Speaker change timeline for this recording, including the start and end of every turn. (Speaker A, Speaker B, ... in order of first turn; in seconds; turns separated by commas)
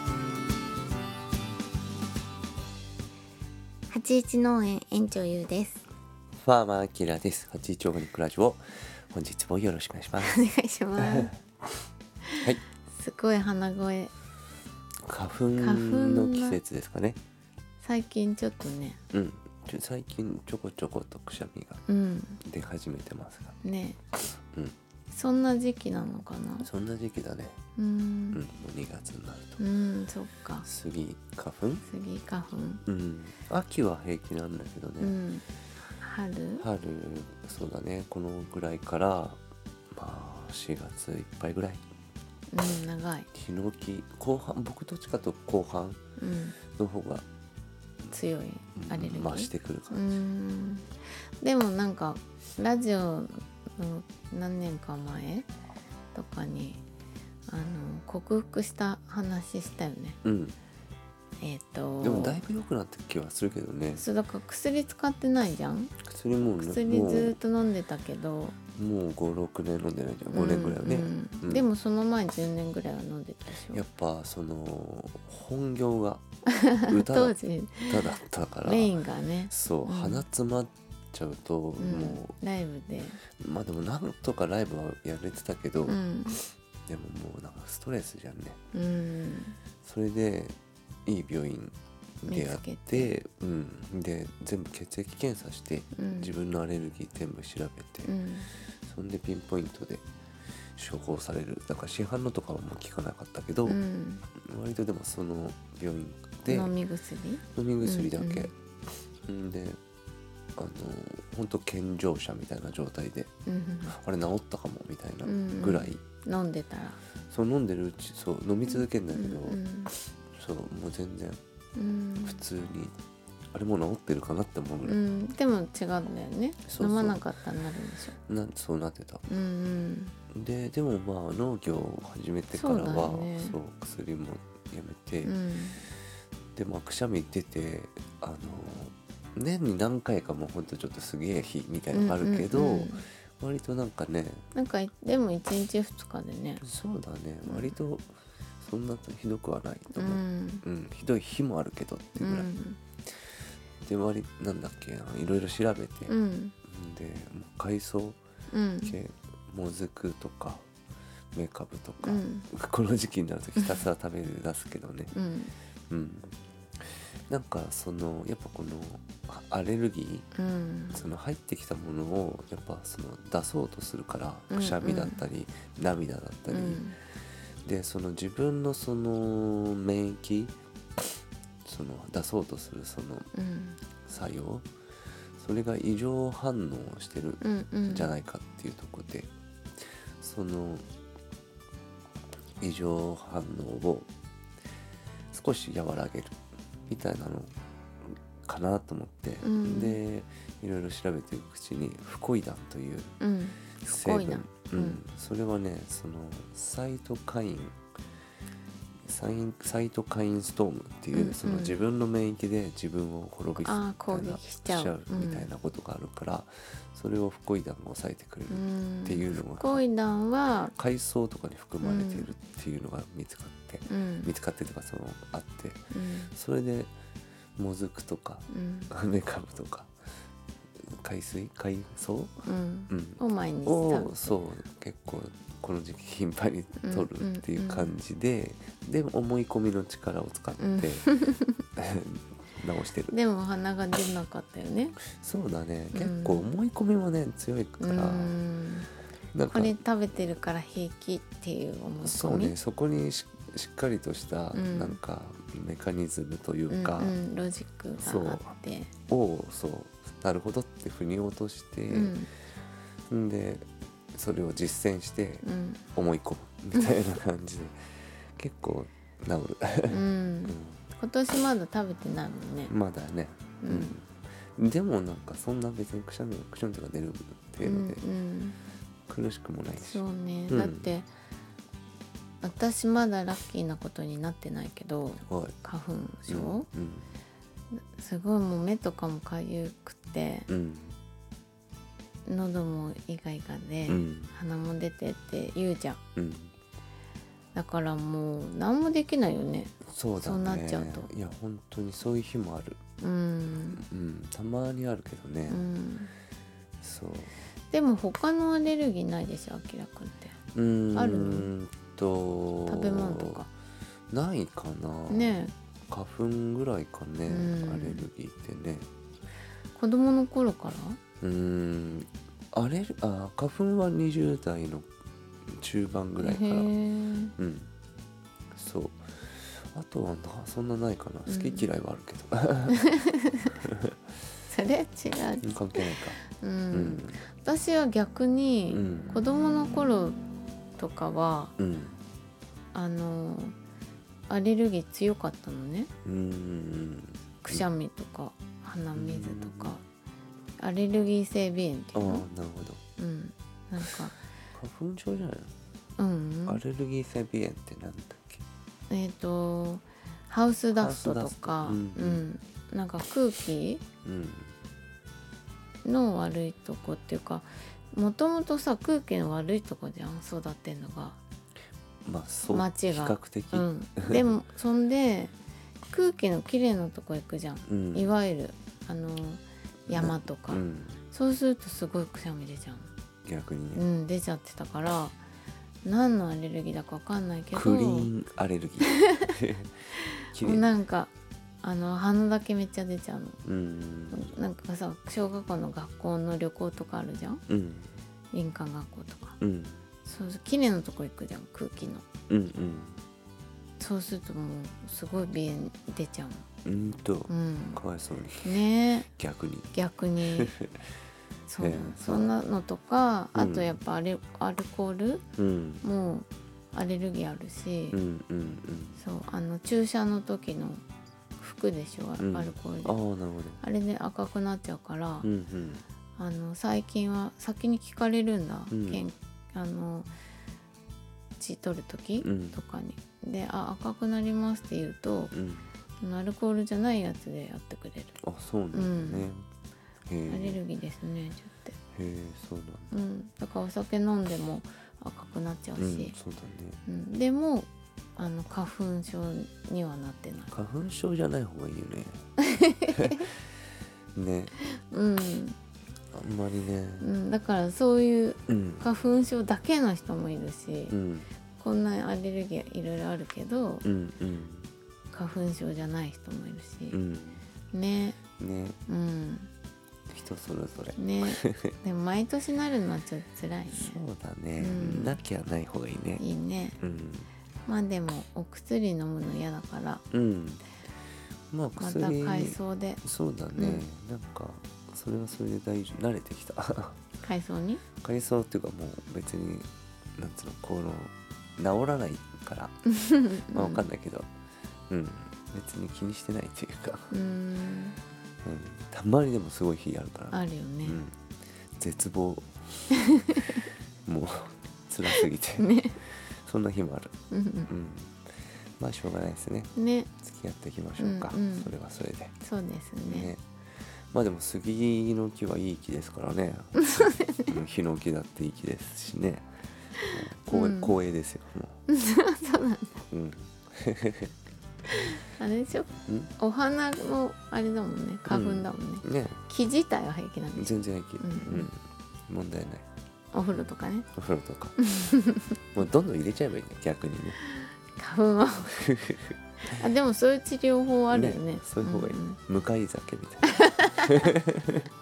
Speaker A: 3.9-5.8, Speaker B: 6.4-10.4, Speaker A: 10.2-11.3, Speaker B: 11.0-11.3, Speaker A: 12.3-14.1, Speaker B: 15.0-17.2, Speaker A: 15.6-16.6, Speaker A: 17.8-19.0, Speaker B: 19.1-21.8, Speaker A: 21.9-22.4, Speaker B: 22.4-23.6, Speaker A: 23.6-24.0, Speaker A: 25.1-26.7, Speaker B: 26.6-27.6, Speaker A: 27.8-28.4, Speaker B: 28.3-29.6, Speaker A: 29.6-30.7, Speaker B: 30.6-31.8, Speaker A: 31.9-32.8, Speaker B: 32.9-35.2, Speaker A: 35.0-35.4, Speaker A: 36.0-36.6, Speaker B: 36.6-39.4, Speaker B: 39.9-41.8, Speaker A: 42.5-43.3, Speaker B: 43.3-46.0, Speaker A: 46.2-46.6, Speaker B: 46.7-47.2, Speaker A: 48.1-55.5, Speaker B: 48.8-50.1, Speaker A: 56.1-56.8, Speaker A: 57.5-60.2, Speaker B: 60.2-60.5, Speaker A: 61.4-62.4, Speaker B: 62.0-64.0, Speaker A: 64.0-65.9, Speaker B: 66.0-67.3, Speaker A: 66.6-68.5, Speaker B: 68.8-71.7, Speaker A: 70.3-73.8, Speaker B: 73.7-76.2, Speaker A: 76.5-80.2, Speaker B: 76.9-78.9, Speaker B: 79.5-82.3, Speaker A: 81.8-83.2, Speaker B: 83.3-88.6, Speaker A: 85.9-86.4, Speaker A: 88.7-89.6, Speaker B: 89.8-98.1, Speaker A: 92.3-93.1, Speaker A: 96.0-96.3, Speaker A: 98.0-98.5, Speaker B: 98.8-100.0, Speaker B: 100.7-103.8, Speaker A: 103.7-104.2, Speaker B: 104.4-106.7, Speaker A: 106.5-108.5, Speaker B: 107.5-108.5, Speaker B: 109.3-109.8, Speaker B: 110.6-113.3, Speaker A: 113.5-113.9, Speaker B: 113.9-116.0, Speaker A: 115.2-117.0, Speaker B: 117.3-121.4, Speaker A: 118.7-119.9, Speaker A: 121.8-122.4, Speaker B: 122.2-122.9, Speaker B: 123.5-125.0, Speaker A: 124.8-128.2, Speaker B: 126.7-127.2, Speaker B: 128.3-129.2, Speaker A: 129.3-130.1, Speaker B: 130.3-135.3, Speaker A: 132.5-133.6, Speaker A: 135.2-135.8, Speaker B: 136.5-144.4, Speaker A: 141.9-143.0, Speaker A: 144.5-146.6, Speaker B: 146.6-152.5, Speaker A: 147.4-147.7, Speaker A: 149.9-150.6, Speaker A: 152.2-152.8, Speaker B: 153.8-156.1, Speaker A: 156.1-156.5, Speaker B: 156.6-158.2, Speaker A: 158.5-158.9, Speaker B: 158.8-160.6, Speaker B: 161.3-165.1, Speaker A: 162.0-162.5, Speaker A: 165.1-165.5, Speaker B: 165.9-170.3, Speaker A: 170.3-171.1, Speaker B: 170.9-176.8, Speaker A: 174.5-175.2, Speaker A: 176.5-176.9, Speaker B: 177.6-180.5, Speaker B: 181.6-183.3, Speaker A: 183.3-183.8, Speaker B: 184.1-184.7, Speaker B: 185.4-189.3, Speaker A: 187.4-188.1, Speaker B: 190.2-190.8, Speaker B: 192.6-194.1, Speaker B: 195.3-196.4, Speaker B: 196.9-197.5, Speaker B: 198.1-203.2, Speaker A: 199.4-200.0, Speaker A: 203.2-205.0, Speaker B: 203.8-207.8, Speaker B: 209.0-219.8, Speaker A: 211.1-211.8, Speaker A: 213.6-215.5, Speaker A: 218.5-220.7, Speaker B: 220.7-226.9, Speaker A: 221.8-222.3, Speaker A: 223.9-224.3, Speaker A: 225.9-226.3, Speaker B: 227.6-229.9, Speaker A: 228.5-228.9, Speaker B: 230.8-241.1, Speaker A: 232.4-234.4, Speaker A: 236.8-237.9, Speaker A: 240.6-241.6, Speaker B: 241.8-243.1, Speaker A: 243.1-245.0, Speaker B: 245.1-248.4, Speaker A: 245.9-246.5, Speaker A: 247.8-248.9, Speaker B: 249.3-249.8, Speaker A: 249.4-252.5, Speaker B: 252.0-257.2, Speaker A: 254.5-255.0, Speaker A: 256.7-258.9, Speaker B: 258.0-258.5, Speaker B: 259.1-262.2, Speaker A: 261.9-262.3, Speaker B: 263.1-270.8, Speaker A: 265.4-265.8, Speaker A: 269.9-272.7, Speaker B: 272.7-278.0, Speaker A: 273.6-274.0, Speaker A: 277.6-278.6, Speaker B: 279.1-280.9, Speaker A: 279.8-281.1, Speaker A: 282.4-286.7, Speaker B: 285.3-285.6, Speaker B: 286.3-287.1, Speaker A: 287.7-290.5, Speaker B: 290.5-290.9, Speaker A: 292.2-296.0, Speaker B: 293.9-294.3, Speaker B: 296.1-296.5, Speaker A: 297.5-301.1, Speaker B: 299.9-302.8, Speaker A: 303.0-303.8, Speaker B: 303.5-305.7, Speaker A: 305.5-306.1, Speaker B: 306.8-307.3, Speaker A: 307.7-310.3, Speaker B: 310.5-313.4, Speaker A: 310.9-311.5, Speaker A: 312.7-313.5, Speaker B: 314.1-318.9, Speaker A: 315.1-315.5, Speaker A: 317.3-318.1, Speaker A: 319.7-321.0, Speaker B: 321.2-324.9, Speaker B: 325.5-326.7, Speaker A: 326.2-327.3, Speaker B: 327.4-327.7, Speaker B: 328.5-332.9, Speaker A: 331.3-331.7, Speaker A: 332.7-333.5, Speaker B: 333.6-333.9, Speaker A: 334.4-340.2, Speaker B: 335.4-336.2, Speaker B: 336.7-337.2, Speaker B: 338.7-339.2, Speaker A: 340.8-341.5, Speaker B: 341.6-342.0, Speaker A: 342.7-343.5, Speaker A: 344.3-345.9, Speaker B: 346.0-347.6, Speaker A: 347.4-349.8, Speaker B: 348.9-349.7, Speaker A: 350.6-352.2, Speaker B: 351.9-352.8, Speaker A: 353.0-354.2, Speaker B: 354.5-355.5, Speaker A: 356.0-356.6, Speaker B: 356.5-358.4, Speaker A: 358.9-363.8, Speaker B: 360.7-362.3, Speaker B: 364.0-364.5, Speaker A: 365.8-371.2, Speaker B: 372.0-374.2, Speaker A: 372.5-375.3, Speaker A: 375.9-382.9, Speaker B: 377.6-378.1, Speaker B: 379.9-381.0, Speaker B: 383.2-383.8, Speaker A: 383.7-385.2, Speaker A: 385.8-388.1, Speaker B: 387.5-390.6, Speaker A: 388.9-389.3, Speaker A: 390.3-391.1, Speaker A: 391.6-393.4, Speaker B: 393.4-394.3, Speaker A: 394.1-397.4, Speaker B: 397.5-397.9, Speaker A: 398.3-399.4, Speaker B: 399.4-399.9, Speaker A: 400.0-402.1, Speaker B: 402.3-403.0, Speaker A: 403.8-406.4, Speaker B: 406.6-409.7, Speaker A: 407.3-407.8, Speaker A: 408.4-409.1, Speaker A: 409.7-410.5, Speaker B: 410.3-410.8, Speaker A: 411.5-415.2, Speaker B: 411.6-412.3, Speaker B: 413.3-413.8, Speaker B: 415.4-415.8, Speaker A: 415.8-418.0, Speaker B: 417.9-419.0, Speaker A: 419.0-420.8, Speaker A: 421.4-423.0, Speaker B: 422.2-423.6, Speaker A: 423.6-425.3, Speaker B: 425.2-425.8, Speaker A: 426.2-430.1, Speaker B: 428.7-429.0, Speaker A: 431.4-435.3, Speaker B: 432.2-432.6, Speaker B: 435.3-435.7, Speaker A: 436.0-438.2, Speaker B: 438.2-439.4, Speaker A: 438.7-439.3, Speaker B: 440.1-440.6, Speaker A: 440.3-441.8, Speaker B: 441.9-442.9, Speaker A: 442.9-446.1, Speaker B: 445.8-446.8, Speaker A: 446.9-450.5, Speaker B: 450.5-452.2, Speaker A: 452.4-453.3, Speaker B: 452.9-453.3, Speaker B: 454.1-454.5, Speaker A: 454.8-455.6, Speaker B: 456.1-457.1, Speaker A: 457.0-460.9, Speaker B: 458.5-458.8, Speaker B: 460.9-461.3, Speaker A: 461.6-463.9, Speaker B: 463.8-464.7, Speaker A: 465.1-467.0, Speaker B: 466.9-467.4, Speaker A: 467.7-468.2, Speaker B: 468.4-468.8, Speaker A: 468.9-469.5, Speaker B: 470.1-471.8, Speaker A: 470.9-474.0, Speaker B: 473.7-476.2, Speaker A: 474.6-475.2, Speaker A: 476.2-476.8, Speaker B: 476.8-477.3, Speaker A: 477.6-480.0, Speaker B: 480.1-480.6, Speaker B: 481.5-487.0, Speaker A: 481.8-483.0, Speaker A: 483.6-483.9, Speaker A: 487.2-487.8, Speaker B: 488.0-492.8, Speaker A: 492.9-493.8, Speaker B: 493.5-494.3, Speaker B: 494.9-497.1, Speaker A: 497.1-498.0, Speaker B: 498.4-501.1, Speaker A: 500.3-501.0, Speaker B: 501.8-502.9, Speaker A: 502.9-503.6, Speaker B: 504.1-507.1, Speaker A: 505.2-506.0, Speaker A: 507.3-507.7, Speaker B: 507.7-508.2, Speaker B: 508.8-512.3, Speaker A: 509.7-510.1, Speaker A: 511.0-511.7, Speaker A: 512.4-513.3, Speaker B: 513.0-513.4, Speaker B: 514.1-519.5, Speaker A: 516.8-517.5, Speaker A: 520.0-521.0, Speaker B: 520.1-521.8, Speaker A: 521.9-523.0, Speaker B: 523.1-524.3, Speaker A: 524.9-531.7, Speaker B: 526.0-526.3, Speaker B: 528.3-529.4, Speaker B: 530.6-532.8, Speaker A: 533.3-534.1, Speaker B: 534.1-534.8, Speaker A: 534.8-535.6, Speaker B: 535.7-537.4, Speaker A: 537.4-538.8, Speaker B: 538.6-539.8, Speaker A: 539.6-542.4, Speaker B: 541.1-544.9, Speaker A: 543.5-544.3